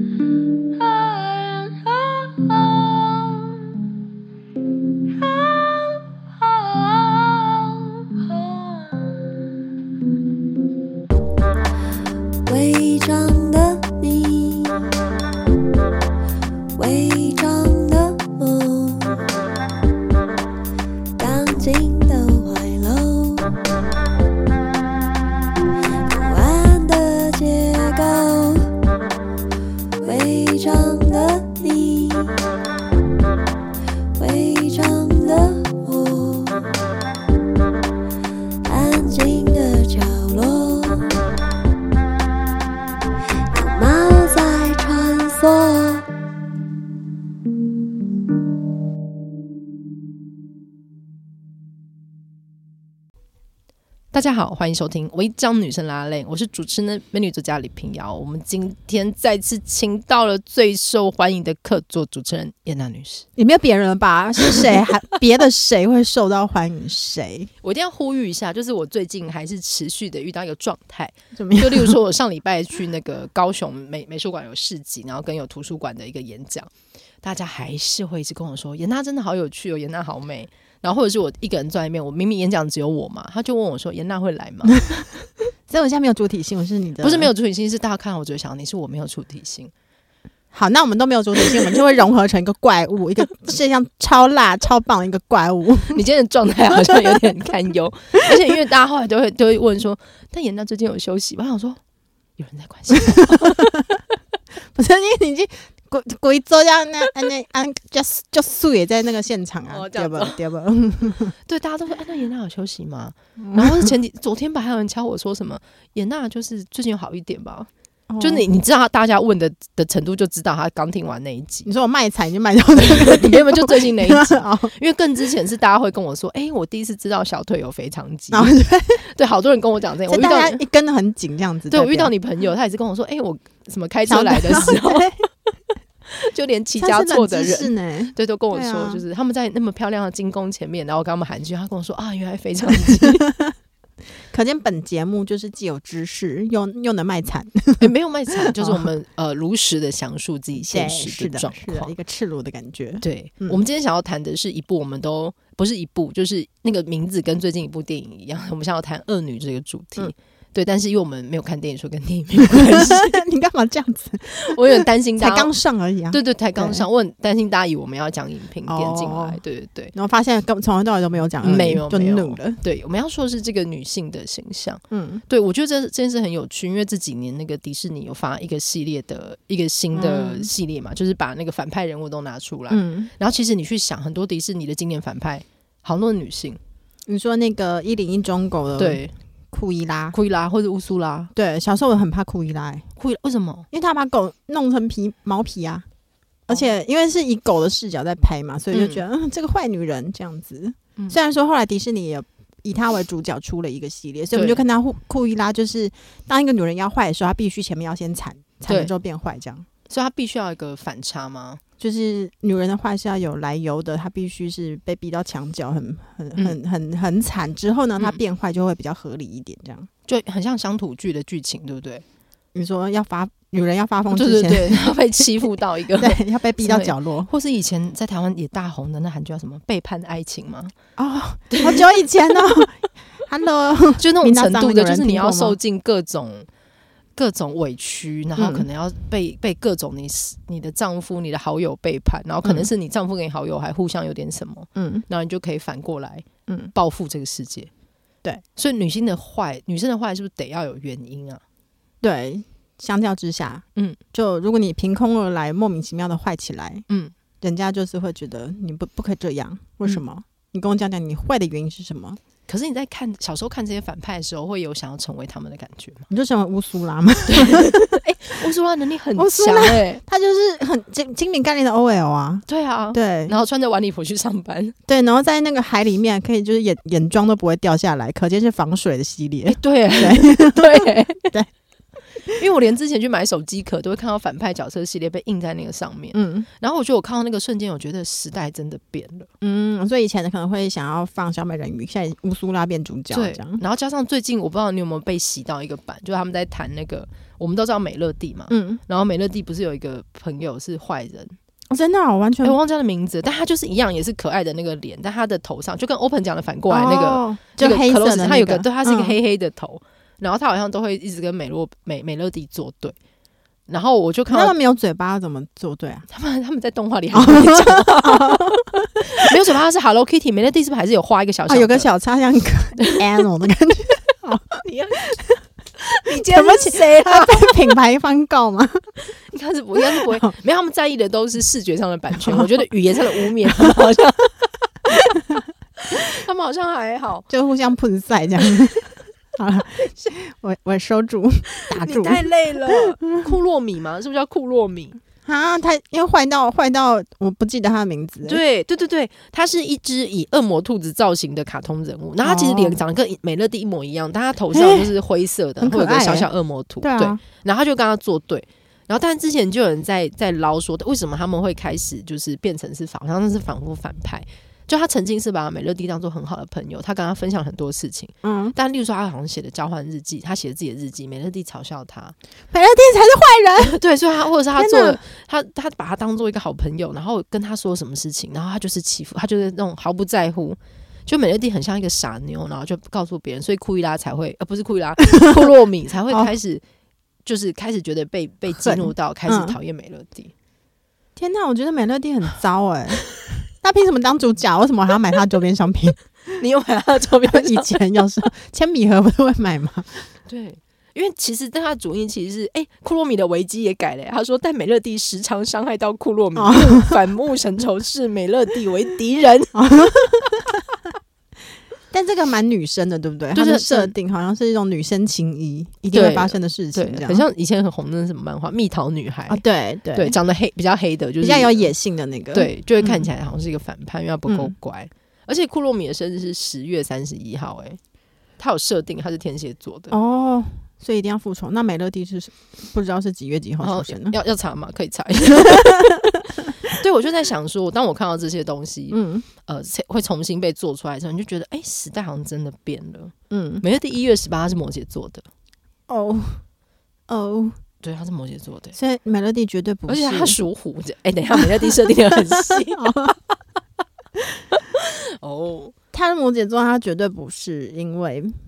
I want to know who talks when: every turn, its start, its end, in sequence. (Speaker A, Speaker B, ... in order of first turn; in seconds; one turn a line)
Speaker A: 0.7-3.6
Speaker A: 5.1-9.4
Speaker A: 12.5-14.9
Speaker A: 16.8-19.2
Speaker A: 21.2-23.5
Speaker A: 26.1-28.7
Speaker A: 30.0-32.4
Speaker A: 34.2-36.7
Speaker A: 38.6-41.1
Speaker A: 43.5-46.1
Speaker B: 54.1-63.3
Speaker C: 63.4-67.5
Speaker B: 67.6-76.7
Speaker C: 71.3-72.0
Speaker B: 77.2-84.8
Speaker C: 85.7-87.3
Speaker B: 87.0-89.7
Speaker C: 90.5-96.0
Speaker B: 95.9-101.8
Speaker C: 96.9-97.2
Speaker B: 102.4-103.7
Speaker C: 103.0-104.0
Speaker C: 104.7-111.3
Speaker B: 109.7-110.4
Speaker B: 111.5-117.7
Speaker C: 113.4-113.9
Speaker C: 118.1-118.5
Speaker B: 118.2-121.7
Speaker C: 121.7-124.7
Speaker B: 122.8-130.6
Speaker C: 128.3-129.0
Speaker C: 130.1-132.1
Speaker B: 131.7-135.1
Speaker C: 134.1-135.3
Speaker B: 136.1-143.3
Speaker C: 136.8-139.0
Speaker C: 142.9-143.5
Speaker C: 144.3-147.9
Speaker B: 147.8-151.9
Speaker C: 148.4-148.9
Speaker C: 150.6-153.6
Speaker B: 153.0-163.2
Speaker C: 162.5-166.8
Speaker B: 164.3-165.5
Speaker B: 166.1-169.9
Speaker C: 168.7-169.4
Speaker C: 169.9-172.6
Speaker B: 171.4-186.6
Speaker C: 174.9-175.2
Speaker C: 179.9-180.5
Speaker C: 182.7-183.1
Speaker C: 187.1-189.0
Speaker B: 188.8-189.1
Speaker C: 189.5-190.2
Speaker B: 190.1-191.3
Speaker C: 191.3-192.9
Speaker B: 193.0-193.7
Speaker C: 193.7-195.9
Speaker C: 196.5-209.7
Speaker B: 198.7-199.0
Speaker B: 204.3-204.6
Speaker B: 209.9-211.6
Speaker C: 211.8-219.9
Speaker B: 220.1-222.0
Speaker C: 222.5-225.2
Speaker B: 224.1-230.7
Speaker C: 226.0-227.3
Speaker C: 231.0-235.6
Speaker B: 231.5-232.0
Speaker B: 234.0-236.5
Speaker B: 237.2-247.7
Speaker C: 238.4-238.7
Speaker C: 242.4-242.7
Speaker C: 244.8-245.1
Speaker C: 246.5-246.7
Speaker B: 248.6-251.4
Speaker C: 252.0-256.9
Speaker C: 257.4-262.2
Speaker B: 262.5-266.1
Speaker C: 266.1-268.0
Speaker B: 267.3-270.0
Speaker C: 269.2-273.3
Speaker B: 272.5-274.8
Speaker C: 274.9-281.5
Speaker B: 279.5-281.3
Speaker B: 282.3-289.3
Speaker C: 286.1-286.5
Speaker C: 289.4-293.6
Speaker B: 293.1-301.4
Speaker C: 298.5-298.8
Speaker C: 301.7-302.6
Speaker B: 302.4-313.0
Speaker C: 306.7-309.1
Speaker B: 313.7-314.6
Speaker C: 314.3-316.1
Speaker B: 316.1-321.9
Speaker C: 317.1-319.3
Speaker C: 321.5-325.2
Speaker B: 324.6-325.2
Speaker B: 325.8-327.6
Speaker C: 326.1-328.9
Speaker B: 329.0-337.3
Speaker C: 329.9-330.3
Speaker C: 332.2-332.5
Speaker C: 337.3-343.3
Speaker B: 341.6-345.0
Speaker C: 345.3-348.4
Speaker B: 348.2-372.1
Speaker C: 352.2-352.8
Speaker C: 354.5-354.9
Speaker C: 355.6-356.3
Speaker C: 356.8-357.2
Speaker C: 368.2-368.6
Speaker C: 372.5-373.8
Speaker B: 373.6-386.6
Speaker C: 374.5-375.0
Speaker C: 385.2-385.4
Speaker B: 387.2-390.3
Speaker C: 388.6-389.6
Speaker C: 391.2-396.4
Speaker B: 396.4-397.8
Speaker C: 397.2-400.1
Speaker B: 400.3-409.5
Speaker C: 406.4-407.0
Speaker C: 409.6-410.6
Speaker C: 411.9-417.2
Speaker B: 413.3-413.9
Speaker B: 415.9-419.4
Speaker C: 419.3-420.1
Speaker B: 419.9-421.7
Speaker C: 421.2-423.1
Speaker B: 422.3-427.8
Speaker C: 424.3-424.6
Speaker B: 428.4-430.0
Speaker C: 429.9-434.1
Speaker B: 433.6-445.3
Speaker C: 435.4-436.1
Speaker C: 438.9-439.3
Speaker C: 443.3-443.6
Speaker C: 445.9-446.4
Speaker C: 447.1-447.6
Speaker B: 447.8-448.8
Speaker C: 448.8-450.4
Speaker B: 449.9-452.9
Speaker C: 451.4-453.2
Speaker B: 454.6-455.7
Speaker C: 455.9-458.4